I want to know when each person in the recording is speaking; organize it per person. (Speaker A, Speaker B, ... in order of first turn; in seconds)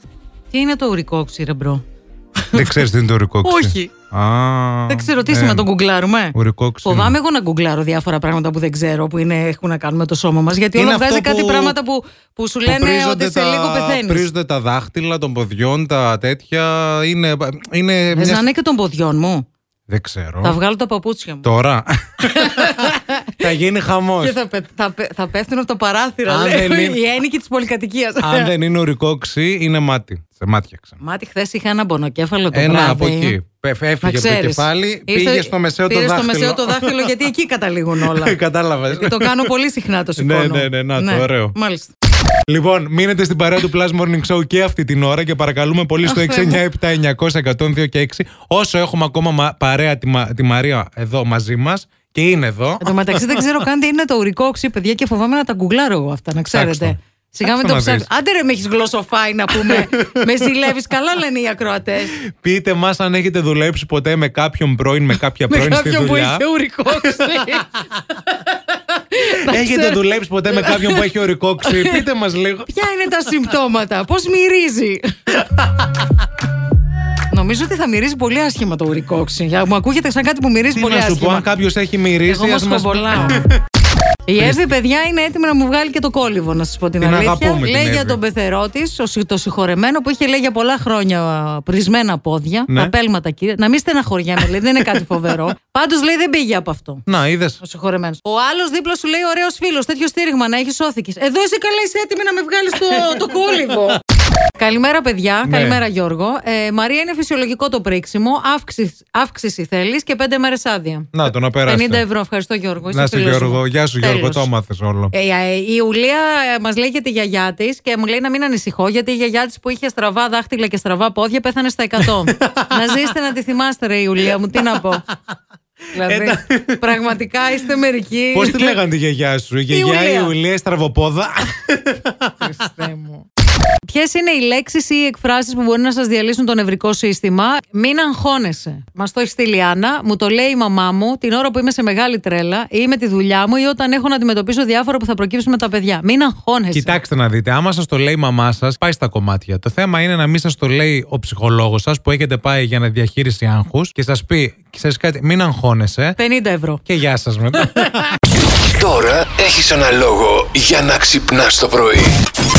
Speaker A: 0.5-1.8, 3.4-3.9, 4.9-14.2, 18.1-19.4, 20.4-21.4, 22.2-23.3, 24.2-28.5, 31.0-33.4, 34.0-38.3, 39.0-41.9, 46.0-46.6, 52.8-62.1, 65.5-70.0, 70.5-71.1, 71.6-72.0, 72.7-75.1, 77.3-81.5, 82.3-83.4, 84.3-97.0, 97.6-104.0, 104.5-111.1, 111.7-114.5, 115.1-125.0, 125.9-128.8, 129.7-130.3, 132.6-133.2, 133.8-146.9, 156.2-156.8
Speaker B: 2.5-5.7, 6.3-7.2, 10.7-11.8, 12.6-18.4, 19.9-20.6, 21.4-24.4, 26.3-27.0, 28.2-31.0, 32.5-37.2, 38.0-39.5, 40.2-41.5, 42.5-53.5, 56.5-58.1, 59.5-60.5, 62.2-67.7, 69.4-72.7, 80.7-83.6, 84.4-84.7, 87.0-88.2, 92.7-92.9, 97.0-97.6, 105.4-105.8, 111.1-112.0, 112.9-115.1, 122.0-123.1, 125.9-127.0, 128.3-132.7, 146.7-156.2, 156.8-158.2
Speaker C: 158.7-162.2